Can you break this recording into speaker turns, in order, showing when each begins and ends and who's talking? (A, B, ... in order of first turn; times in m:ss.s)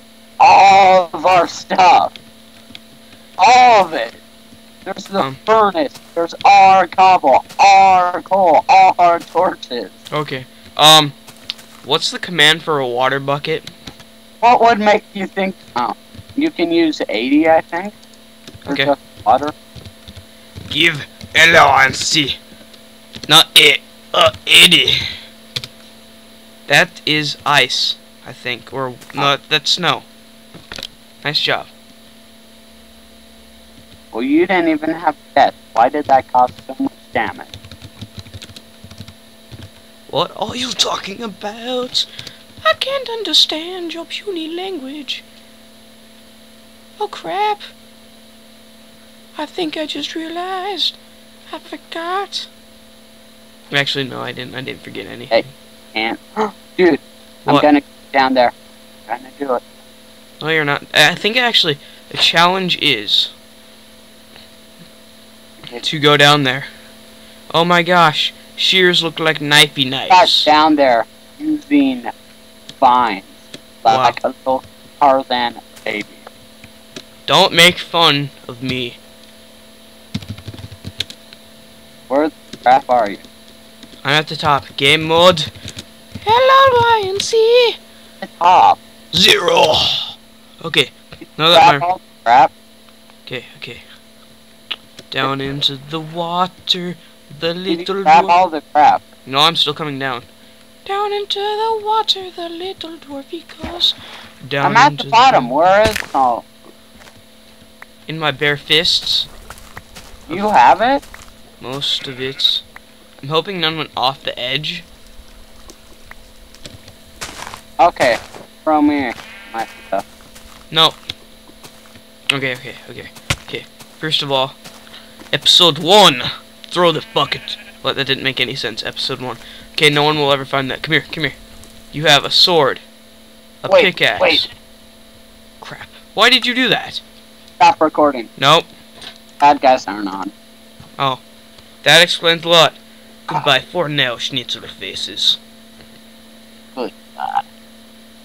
0:00.4-0:02.1 A
0:03.4-0:04.2 A
0:04.9-0:09.9 A
0:10.1-0:11.1 B
0:11.8-0:13.7 B
0:14.4-0:18.0 A
0:18.6-0:18.9 B
0:18.7-0:19.5 A
0:20.7-0:22.4 B
0:23.3-0:25.1 B
0:26.7-0:30.1 B
0:31.2-0:31.7 B
0:34.1-0:37.5 A
0:40.1-0:42.1 B
0:42.6-0:45.2 B
0:47.0-0:47.6 B
0:49.4-0:51.0 B
0:51.5-0:52.5 B
0:53.7-0:55.5 B
0:55.3-0:58.5 A
0:59.1-0:59.6 A
1:00.4-1:03.3 B
1:05.7-1:06.7 B
1:07.5-1:10.5 B
1:10.1-1:12.1 A
1:12.8-1:16.2 A
1:13.9-1:14.2 B
1:17.3-1:19.0 B
1:22.1-1:23.2 A
1:24.0-1:25.5 B
1:26.2-1:27.8 B
1:28.2-1:28.8 A
1:29.1-1:31.9 B
1:31.5-1:32.5 A
1:33.3-1:33.8 B
1:35.1-1:38.4 B
1:37.7-1:39.0 A
1:39.2-1:40.3 B
1:40.8-1:45.6 B
1:44.6-1:46.5 A
1:48.1-1:49.3 B
1:50.3-1:51.0 A
1:51.6-1:52.6 B
1:53.2-1:54.9 B
1:57.8-2:00.0 A
2:00.7-2:01.0 B
2:02.3-2:04.6 B
2:05.3-2:11.4 B
2:11.9-2:12.8 B
2:13.6-2:14.5 B
2:13.7-2:14.5 A
2:15.6-2:17.0 B
2:17.6-2:18.3 A
2:18.4-2:18.7 B
2:19.4-2:20.3 A
2:21.8-2:25.4 B
2:26.8-2:27.4 A